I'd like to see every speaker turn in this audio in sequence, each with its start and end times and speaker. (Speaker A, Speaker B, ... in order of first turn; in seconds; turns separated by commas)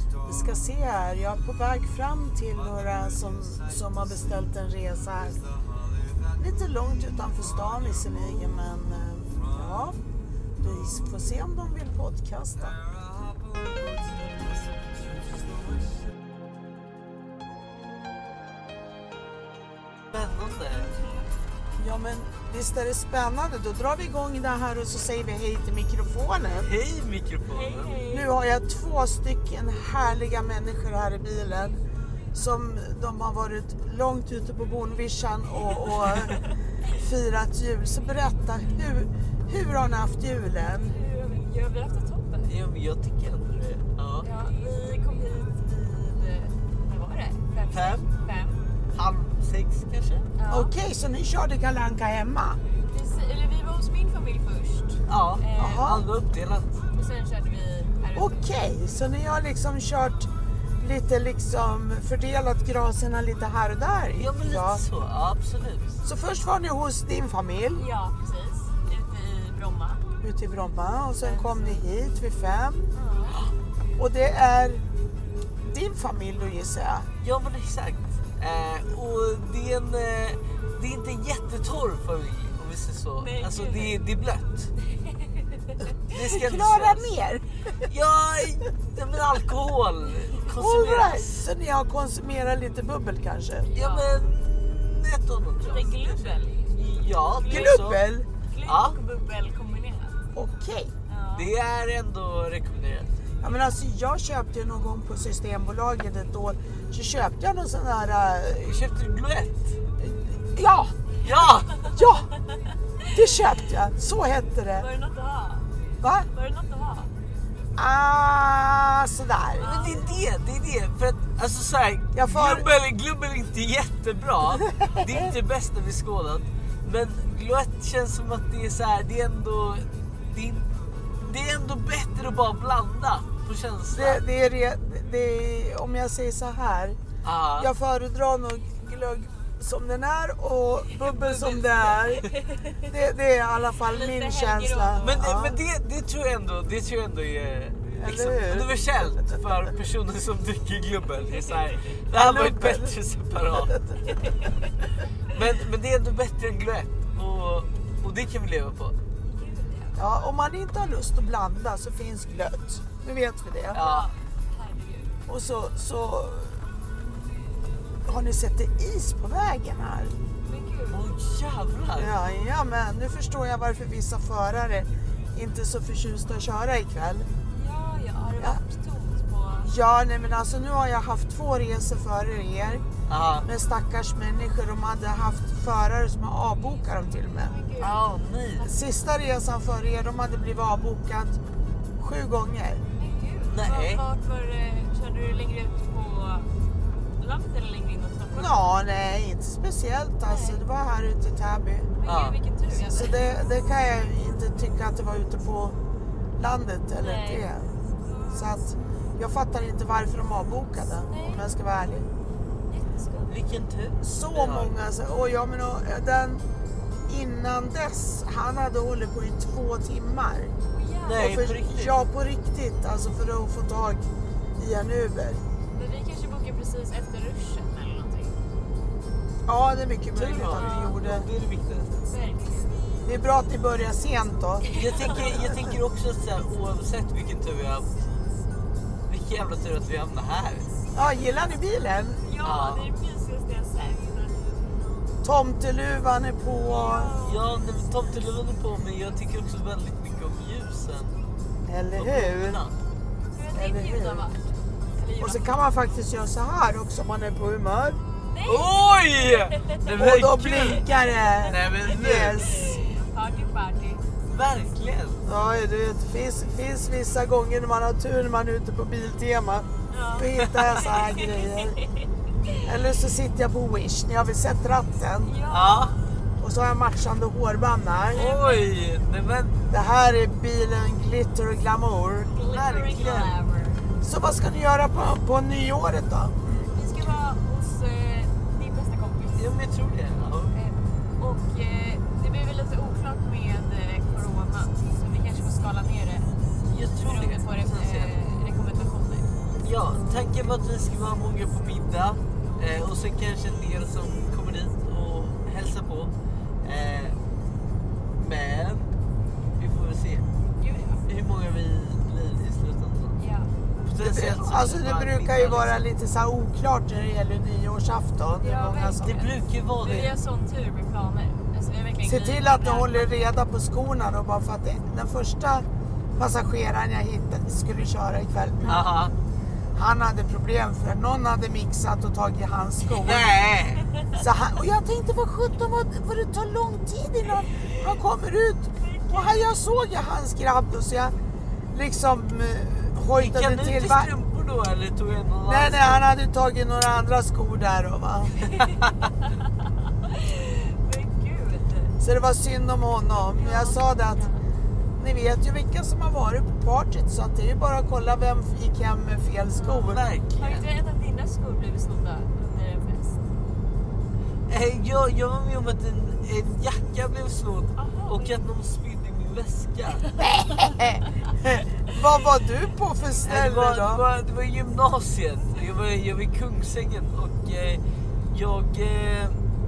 Speaker A: 0.2-5.4, Speaker A: 6.4-10.0, Speaker A: 10.6-12.8, Speaker B: 20.1-20.9, Speaker A: 21.8-26.7, Speaker B: 26.6-28.0, Speaker C: 27.5-28.3, Speaker A: 28.1-31.8, Speaker A: 32.3-41.0, Speaker C: 40.8-42.5, Speaker B: 42.5-44.3, Speaker C: 44.2-48.6, Speaker B: 47.7-48.1, Speaker B: 48.9-50.3, Speaker C: 50.4-50.7, Speaker A: 50.5-52.6, Speaker C: 52.9-55.9, Speaker B: 55.1-56.8, Speaker A: 55.6-56.1, Speaker C: 56.9-58.5, Speaker A: 58.1-64.8, Speaker B: 64.1-66.0, Speaker A: 66.0-67.8, Speaker C: 67.8-70.0, Speaker A: 70.2-72.9, Speaker C: 71.2-71.9, Speaker C: 72.9-73.4, Speaker A: 74.0-74.8, Speaker A: 75.6-77.1, Speaker B: 77.2-84.7, Speaker C: 83.2-84.0, Speaker C: 85.1-85.8, Speaker B: 86.1-87.1, Speaker A: 86.1-87.9, Speaker B: 87.8-91.3, Speaker A: 90.5-93.7, Speaker C: 93.7-94.3, Speaker B: 93.7-98.0, Speaker C: 95.6-96.6, Speaker C: 97.4-97.8, Speaker A: 97.5-98.3, Speaker C: 98.5-100.2, Speaker B: 98.7-99.0, Speaker A: 100.3-100.9, Speaker C: 101.1-101.5, Speaker B: 101.3-103.2, Speaker A: 103.4-108.8, Speaker B: 108.6-109.6, Speaker A: 110.0-111.0, Speaker B: 111.2-111.9, Speaker C: 111.6-111.9, Speaker A: 111.8-112.3, Speaker A: 113.1-114.9, Speaker C: 114.8-115.7, Speaker A: 116.0-116.3, Speaker C: 116.3-117.1, Speaker A: 117.8-119.7, Speaker C: 119.6-120.2, Speaker B: 119.6-134.2, Speaker A: 122.1-122.7, Speaker A: 133.9-137.0, Speaker B: 137.2-137.7, Speaker A: 137.6-142.3, Speaker B: 140.9-142.2, Speaker C: 142.2-142.8, Speaker A: 142.9-145.6, Speaker C: 143.9-145.2, Speaker B: 145.0-153.8, Speaker A: 148.0-148.7, Speaker A: 152.2-152.9, Speaker A: 153.6-154.0, Speaker C: 154.1-154.7, Speaker B: 155.3-159.0, Speaker C: 159.2-160.0, Speaker A: 160.0-163.9, Speaker B: 163.7-164.1, Speaker C: 163.7-165.2, Speaker A: 165.3-166.6, Speaker A: 168.1-170.2, Speaker C: 170.4-171.1, Speaker B: 170.9-172.1, Speaker A: 172.0-177.3, Speaker C: 177.5-179.7, Speaker A: 179.6-182.8, Speaker B: 183.1-183.5, Speaker A: 183.4-187.5, Speaker C: 187.3-188.0, Speaker B: 187.8-188.7, Speaker A: 188.6-191.4, Speaker A: 192.0-192.8, Speaker C: 193.0-196.5, Speaker B: 193.5-194.0, Speaker C: 197.2-198.7, Speaker A: 198.3-202.0, Speaker C: 200.2-200.6, Speaker C: 202.0-203.1, Speaker B: 202.1-202.4, Speaker A: 202.7-205.8, Speaker A: 206.4-207.7, Speaker C: 207.0-207.5, Speaker A: 208.3-212.1, Speaker C: 211.1-211.5, Speaker C: 212.7-213.3, Speaker B: 213.3-214.8, Speaker A: 214.0-216.4, Speaker A: 217.1-220.5, Speaker C: 220.7-221.3, Speaker B: 221.1-222.0, Speaker A: 221.2-224.1, Speaker A: 224.6-225.4, Speaker C: 225.7-228.4, Speaker A: 229.5-231.3, Speaker B: 230.1-232.1, Speaker C: 230.5-231.0, Speaker C: 232.1-232.8, Speaker A: 233.0-235.3, Speaker C: 234.7-235.5, Speaker B: 234.7-237.9, Speaker B: 239.1-240.7, Speaker A: 240.9-242.2, Speaker C: 242.2-244.4, Speaker B: 242.4-242.9, Speaker A: 245.2-247.1, Speaker C: 246.7-247.4, Speaker B: 247.2-251.2, Speaker A: 251.7-252.6, Speaker B: 251.9-252.7, Speaker C: 253.3-255.6, Speaker A: 253.5-254.3, Speaker A: 255.2-258.0, Speaker C: 258.3-259.9, Speaker B: 258.5-260.9, Speaker A: 260.0-262.8, Speaker B: 261.4-262.6, Speaker C: 262.4-264.0, Speaker B: 264.3-265.2, Speaker A: 265.2-271.8, Speaker C: 269.9-271.8, Speaker A: 272.6-275.4, Speaker C: 275.2-276.0, Speaker B: 275.5-276.0, Speaker A: 276.4-278.2, Speaker C: 278.1-278.8, Speaker B: 278.1-279.6, Speaker A: 279.7-283.1, Speaker C: 282.3-283.9, Speaker B: 282.9-283.3, Speaker A: 284.0-286.7, Speaker C: 286.7-289.5, Speaker B: 289.4-290.5, Speaker C: 290.5-296.3, Speaker B: 296.7-298.1, Speaker C: 297.1-299.3, Speaker B: 299.6-307.2, Speaker B: 308.1-308.9, Speaker B: 309.6-310.3, Speaker C: 310.6-311.1, Speaker B: 311.1-313.2, Speaker C: 313.2-313.5, Speaker B: 313.9-315.8, Speaker A: 314.0-319.1, Speaker C: 318.4-323.2, Speaker B: 319.0-320.1, Speaker A: 322.1-325.7, Speaker A: 326.2-328.9, Speaker B: 328.6-329.1, Speaker A: 329.8-333.4, Speaker B: 333.0-333.8, Speaker A: 334.2-341.1, Speaker C: 338.8-339.5, Speaker A: 341.7-344.1, Speaker B: 343.1-346.0, Speaker A: 345.5-348.5, Speaker C: 348.5-349.4, Speaker C: 349.9-352.0, Speaker A: 352.0-354.3, Speaker C: 353.3-354.4, Speaker A: 355.0-360.0, Speaker C: 359.5-363.4, Speaker B: 359.9-360.6, Speaker B: 364.5-370.1, Speaker C: 367.8-368.4, Speaker A: 370.2-374.0, Speaker B: 373.2-379.4